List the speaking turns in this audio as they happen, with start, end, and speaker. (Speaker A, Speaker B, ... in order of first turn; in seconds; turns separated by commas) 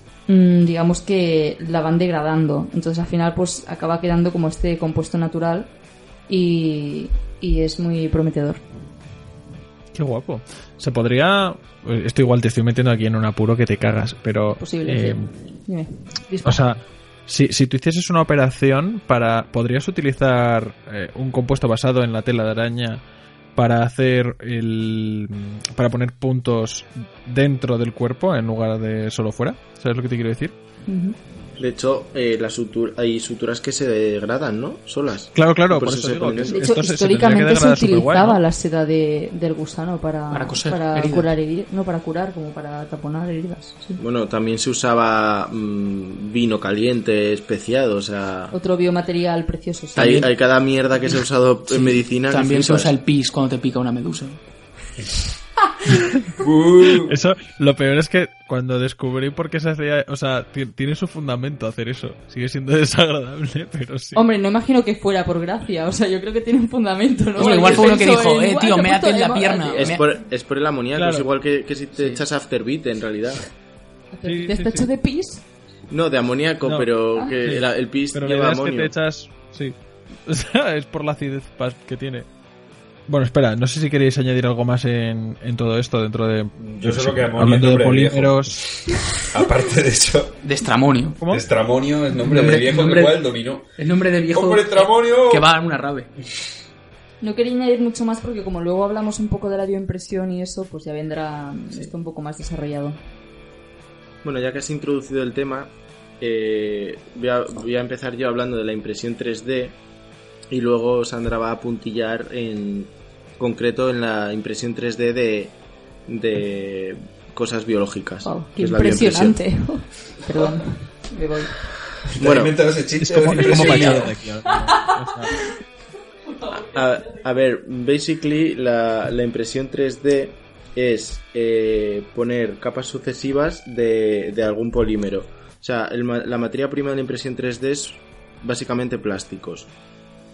Speaker A: 0.3-5.7, Speaker A: 6.3-8.6, Speaker B: 9.9-15.3, Speaker A: 14.5-16.7, Speaker B: 16.4-23.0, Speaker B: 23.6-30.6, Speaker A: 30.9-31.2, Speaker C: 31.6-36.7, Speaker B: 35.4-38.4, Speaker A: 36.5-44.0, Speaker D: 40.3-41.3, Speaker C: 44.0-48.6, Speaker A: 48.5-50.3, Speaker C: 50.0-52.9, Speaker D: 51.7-54.4, Speaker E: 56.4-57.1, Speaker B: 57.1-64.2, Speaker A: 64.2-70.0, Speaker D: 67.4-70.0, Speaker C: 67.4-68.0, Speaker C: 69.7-73.4, Speaker B: 71.0-71.3, Speaker D: 71.9-72.2, Speaker A: 74.1-75.5, Speaker B: 74.2-74.9, Speaker C: 75.9-78.9, Speaker B: 76.7-76.9, Speaker B: 77.5-79.8, Speaker B: 80.3-82.3, Speaker B: 83.1-88.6, Speaker E: 86.6-88.7, Speaker E: 89.3-90.3, Speaker D: 90.4-91.2, Speaker E: 91.3-93.7, Speaker D: 92.2-93.2, Speaker D: 93.8-96.1, Speaker E: 94.3-95.5, Speaker A: 97.2-103.0, Speaker C: 104.2-109.8, Speaker C: 110.5-115.6, Speaker C: 116.1-119.4, Speaker A: 118.2-121.5, Speaker E: 122.2-124.1, Speaker C: 122.2-122.6, Speaker B: 123.0-125.3, Speaker C: 123.6-124.0, Speaker A: 124.6-125.0, Speaker A: 126.3-126.8, Speaker C: 126.7-139.7